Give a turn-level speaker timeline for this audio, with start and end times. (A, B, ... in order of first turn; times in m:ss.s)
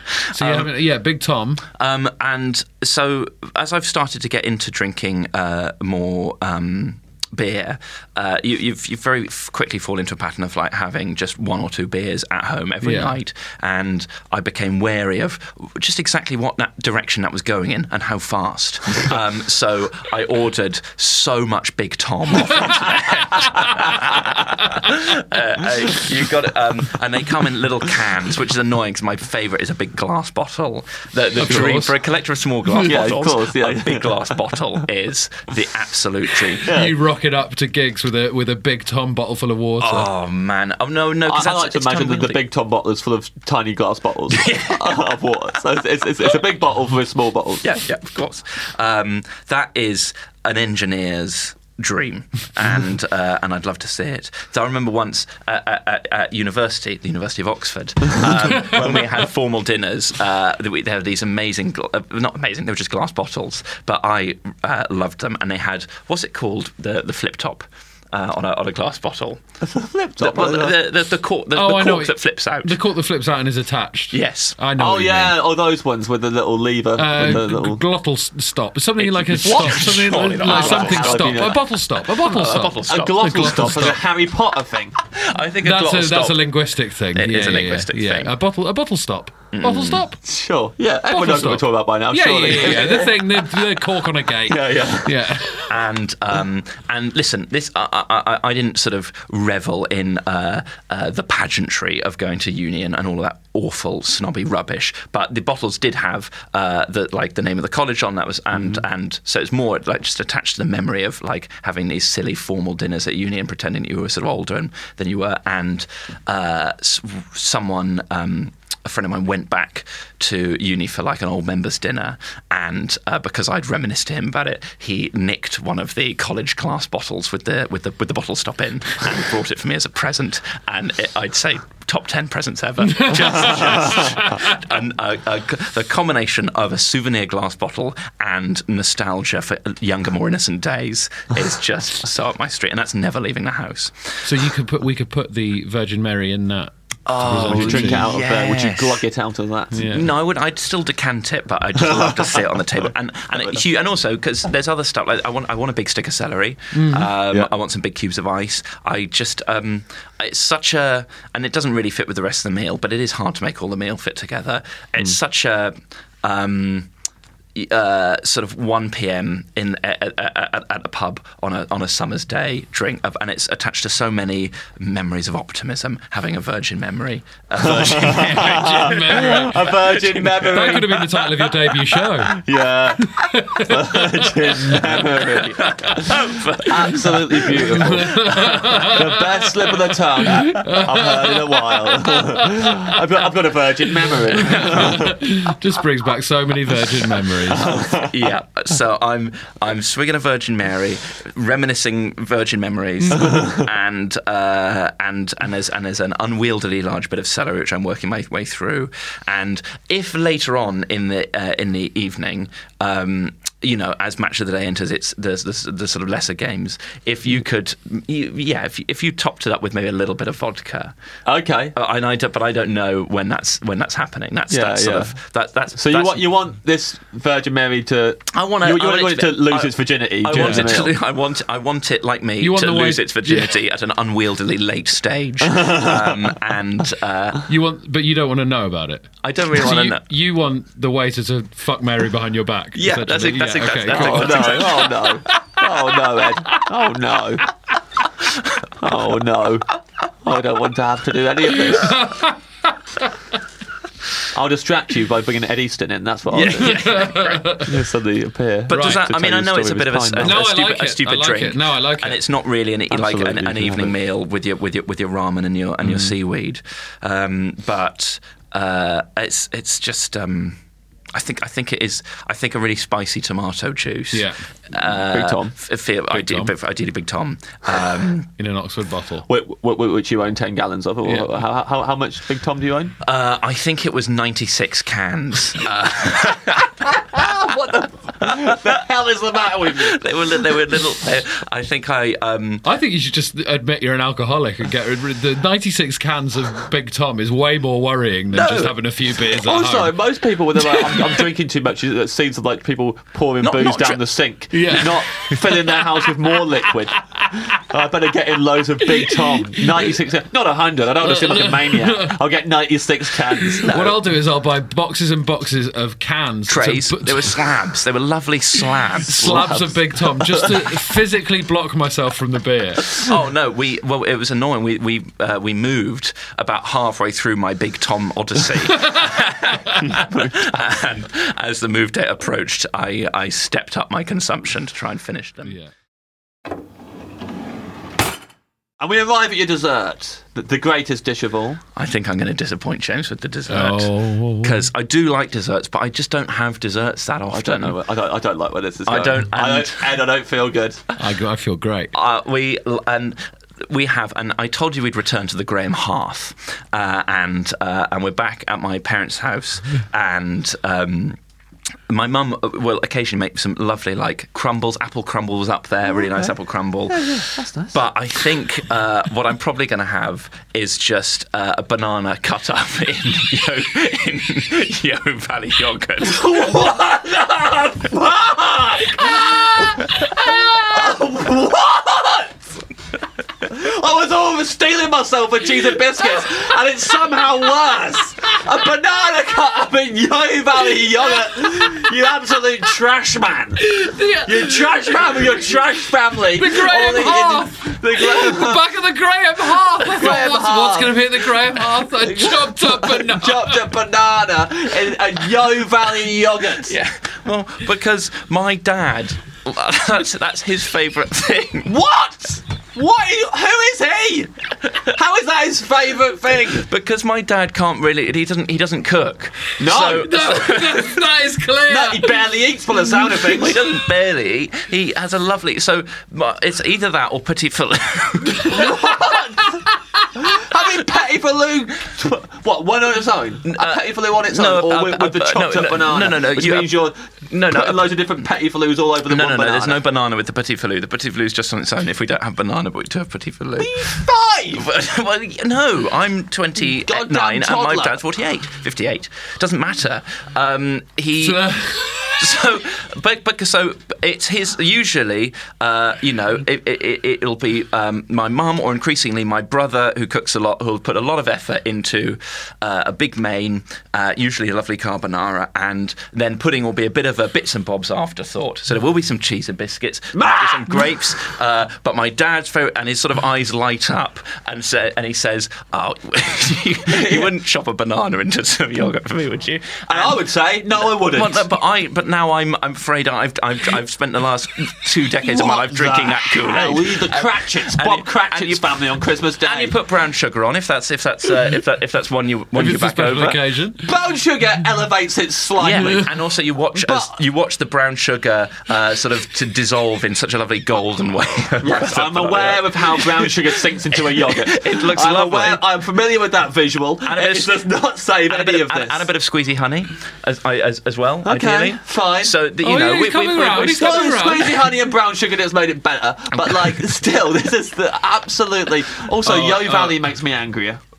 0:00.3-0:01.6 A
0:00.4-0:00.7 B
0:01.8-0:36.7 B
0:12.8-0:13.2 A
0:31.4-0:31.9 A
0:32.8-0:34.4 C
0:36.6-0:37.0 C
0:36.7-0:40.1 A
0:39.8-0:42.4 B
0:41.3-0:47.7 C
0:44.3-0:45.1 B
0:47.6-1:09.4 B
1:09.6-1:10.8 C
1:10.2-1:12.8 B
1:11.5-1:15.4 A
1:14.1-1:14.6 B
1:14.8-1:17.8 C
1:17.0-1:24.0 A
1:19.0-1:21.5 B
1:19.4-1:21.6 C
1:22.2-1:24.0 B
1:22.9-1:25.0 C
1:25.1-1:26.5 B
1:25.6-1:30.2 A
1:27.1-1:28.3 B
1:29.5-1:30.0 B
1:30.2-1:33.4 C
1:31.1-1:35.7 A
1:34.5-1:35.1 C
1:35.7-2:24.2 B
2:12.9-2:14.4 A
2:24.2-2:28.1 A
2:27.1-2:29.0 B
2:27.4-2:29.8 C
2:29.7-2:30.1 A
2:29.8-2:46.9 B
2:31.8-2:32.5 C
2:36.7-2:37.1 A
2:47.6-3:00.8 B
2:57.7-3:01.5 C
2:58.3-2:59.7 A
3:00.5-3:02.4 A
3:02.2-3:06.1 C
3:03.1-3:04.8 A
3:05.3-3:08.9 B
3:06.6-3:08.1 C
3:07.8-3:09.2 A
3:08.8-3:15.2 C
3:10.4-3:12.7 A
3:14.4-3:17.7 A
3:17.5-3:18.1 C
3:18.1-3:40.9 B
3:23.2-3:23.6 C
3:41.2-3:41.7 C
3:41.7-3:46.3 B
3:44.5-3:45.2 C
3:45.8-3:51.0 C
3:48.3-3:57.5 B
3:50.3-3:50.7 A
3:52.4-3:53.6 A
3:55.5-3:56.4 C
3:57.5-4:04.6 A
3:59.2-4:00.0 B
4:02.8-4:05.1 B
4:03.9-4:07.5 C
4:08.8-4:09.7 C
4:10.2-4:12.0 C
4:11.6-4:12.4 A
4:14.3-4:16.8 C
4:16.3-4:17.6 B
4:16.6-4:17.7 A
4:17.6-4:20.4 C
4:18.7-4:30.6 B
4:18.7-4:19.0 A
4:20.2-4:22.2 A
4:22.9-4:24.0 C
4:31.1-4:38.3 B
4:34.1-4:34.4 A
4:35.1-4:35.5 C
4:36.1-4:36.5 A
4:38.4-4:39.3 A
4:39.3-4:43.0 C
4:41.0-4:41.3 A
4:43.0-4:47.3 B
4:46.9-4:50.0 C
4:48.2-4:48.6 B
4:49.7-4:52.6 B
4:52.6-5:00.0 A
4:58.3-4:58.8 B
4:59.4-5:13.7 C
5:00.7-5:01.1 A
5:03.4-5:04.0 B
5:04.5-5:05.4 A
5:09.0-5:09.6 A
5:11.0-5:12.2 A
5:13.6-5:17.4 A
5:13.6-5:14.0 B
5:16.5-5:19.7 B
5:19.0-5:23.0 A
5:23.0-5:35.6 B
5:29.9-5:30.3 C
5:35.4-5:35.7 A
5:38.8-5:41.6 C
5:41.8-5:47.8 B
5:43.5-5:44.7 A
5:47.3-5:50.8 C
5:48.9-5:50.0 B
5:51.0-5:51.9 A
5:51.9-6:01.2 B
6:01.9-6:16.7 B
6:05.9-6:06.3 C
6:06.9-6:07.8 C
6:16.0-6:22.5 C
6:23.4-6:38.6 C
6:33.6-6:35.0 A
6:36.4-6:43.6 A
6:39.5-6:46.8 C
6:46.7-6:51.7 B
6:51.7-6:54.3 C
6:54.9-6:56.7 C
6:56.7-7:00.9 B
6:59.6-7:00.6 C
6:59.8-7:02.2 A
7:01.7-7:03.7 C
7:03.2-7:09.2 B
7:08.5-7:09.6 C
7:10.2-7:19.8 C
7:13.5-7:18.2 B
7:19.1-7:24.0 B
7:23.6-7:24.6 C
7:24.6-7:31.4 B
7:26.8-7:28.0 C
7:31.2-7:32.3 A
7:32.2-8:00.2 B
7:50.1-7:51.0 C
7:56.9-7:57.3 C
7:59.9-8:01.5 C
8:00.8-8:08.8 B
8:05.2-8:09.8 C
8:09.4-8:13.4 B
8:12.6-8:13.9 A
8:13.9-8:16.1 C
8:15.6-8:25.6 B
8:16.8-8:17.2 C
8:21.6-8:29.1 C
8:27.1-8:27.7 B
8:28.3-8:34.2 B
8:31.2-8:32.4 C
8:32.6-8:34.7 A
8:33.8-8:40.8 C
8:36.4-8:36.8 B
8:39.3-8:40.0 B